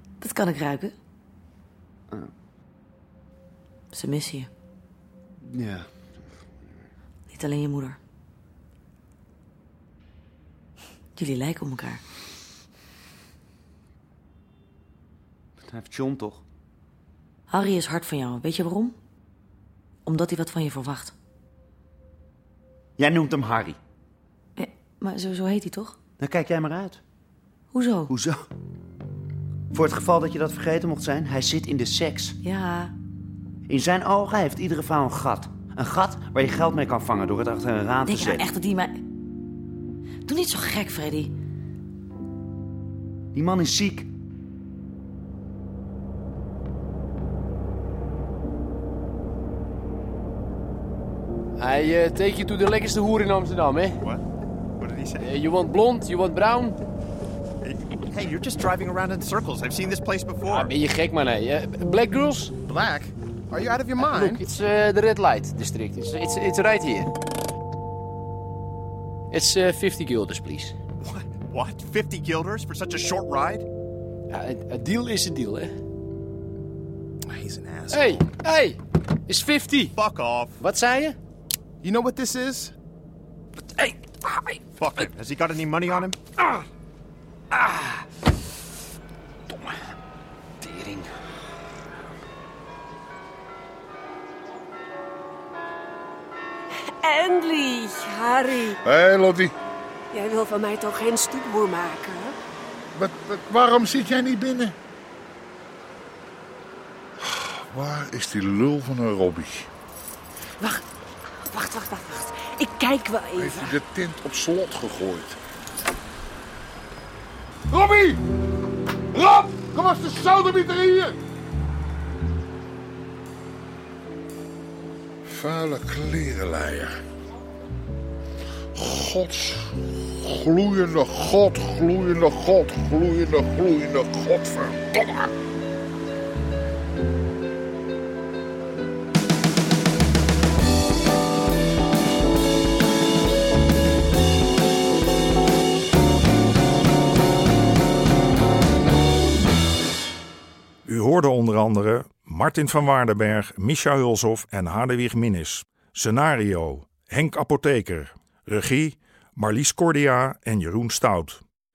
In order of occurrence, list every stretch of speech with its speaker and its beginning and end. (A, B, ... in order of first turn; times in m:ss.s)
0:00.2-0:00.9 A
0:03.9-0:04.5 A
0:05.4-0:05.8 B
0:07.3-0:08.0 A
0:11.2-0:12.0 A
0:15.7-0:16.4 B
0:17.5-0:19.0 A
0:20.0-0:21.1 A
0:23.0-0:23.8 B
0:24.6-0:26.0 A
0:26.2-0:27.0 B
0:27.7-0:28.1 A
0:28.1-0:28.4 B
0:29.7-0:32.4 B
0:32.4-0:32.9 A
0:33.7-0:38.5 B
0:38.1-0:39.0 A
0:40.3-0:41.3 A
0:43.3-0:44.1 B
0:51.6-0:54.0 C
0:54.8-0:55.3 D
0:55.2-0:56.8 C
0:57.7-1:00.7 D
1:00.5-1:02.6 C
1:02.7-1:04.4 D
1:04.0-1:07.1 C
1:09.3-1:10.7 C
1:11.0-1:13.6 D
1:14.3-1:15.7 C
1:17.3-1:18.3 D
1:17.9-1:20.0 C
1:19.9-1:20.6 D
1:20.6-1:21.2 C
1:21.8-1:22.7 D
1:24.7-1:26.2 D
1:27.6-1:28.0 C
1:30.6-1:31.1 C
1:37.0-1:38.8 E
1:38.8-1:39.5 F
1:40.1-1:42.3 E
1:42.9-1:44.7 F
1:47.2-1:49.7 F
1:51.5-1:53.8 E
1:53.3-1:55.4 F
1:57.7-1:58.2 F
1:59.1-2:01.2 F
2:05.3-2:06.9 F
2:08.8-2:15.3 F
2:30.8-2:41.4 G